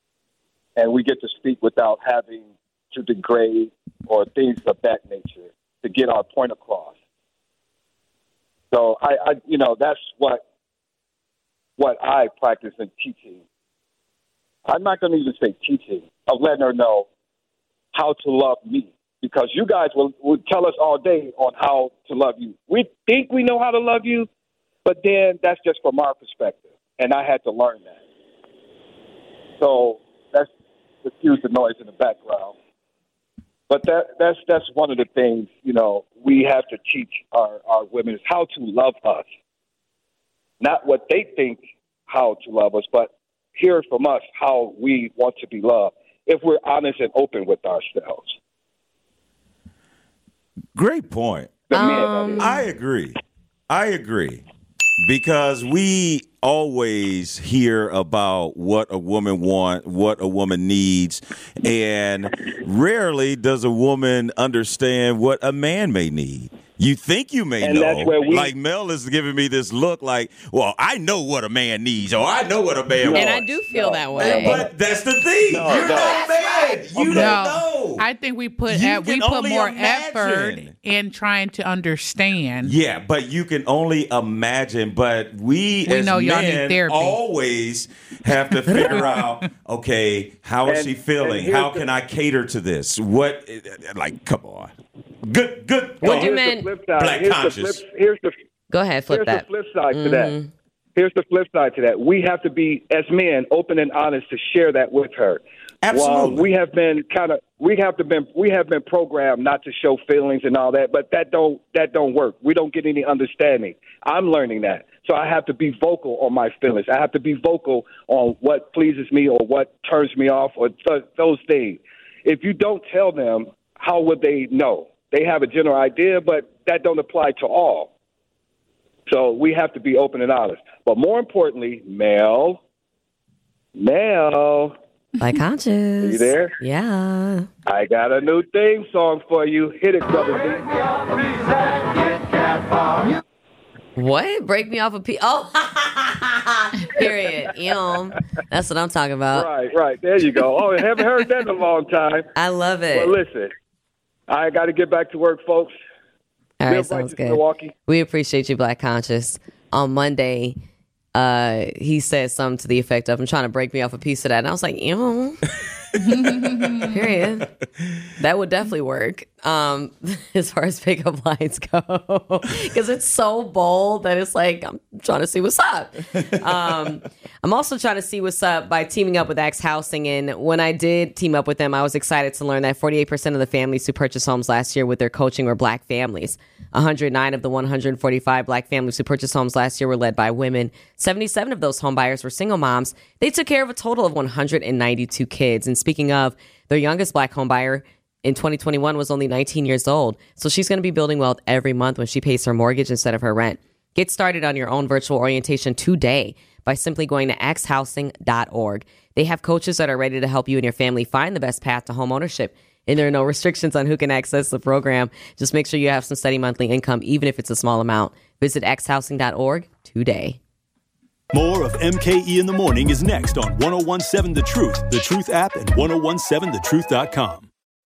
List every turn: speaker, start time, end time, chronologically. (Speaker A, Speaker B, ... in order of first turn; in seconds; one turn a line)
Speaker A: 0.8-7.0
Speaker A: 8.7-10.4
Speaker A: 11.8-13.4
Speaker A: 14.7-17.1
Speaker A: 17.9-24.3
Speaker A: 24.9-28.0
Speaker A: 29.6-30.5
Speaker A: 31.0-32.5
Speaker A: 33.7-39.2
Speaker A: 40.6-48.4
Speaker B: 50.8-53.2
Speaker A: 51.7-52.5
Speaker C: 51.7-52.6
Speaker B: 53.7-54.5
Speaker B: 55.0-73.5
Speaker A: 67.6-68.5
Speaker A: 73.0-74.7
Speaker C: 73.1-74.6
Speaker B: 74.1-78.0
Speaker A: 75.5-77.3
Speaker D: 77.1-82.7
Speaker B: 78.7-80.7
Speaker B: 82.6-96.4
Speaker D: 85.9-87.2
Speaker D: 88.7-89.2
Speaker A: 90.7-91.8
Speaker C: 96.0-96.7
Speaker A: 96.0-98.3
Speaker B: 97.0-97.8
Speaker C: 98.7-100.5
Speaker A: 99.1-100.4
Speaker A: 101.0-127.9
Speaker B: 105.8-106.5
Speaker A: 129.1-132.6
Speaker A: 133.8-134.8
Speaker C: 135.2-137.5
Speaker A: 136.0-136.5
Speaker A: 137.7-141.0
Speaker C: 144.0-149.5
Speaker A: 149.3-152.3
Speaker C: 152.4-153.2
Speaker A: 152.9-153.5
Speaker A: 154.3-155.8
Speaker C: 156.6-160.6
Speaker A: 156.7-157.7
Speaker C: 161.1-165.4
Speaker D: 166.0-167.1
Speaker C: 166.8-167.5
Speaker C: 168.2-220.4
Speaker E: 221.3-227.5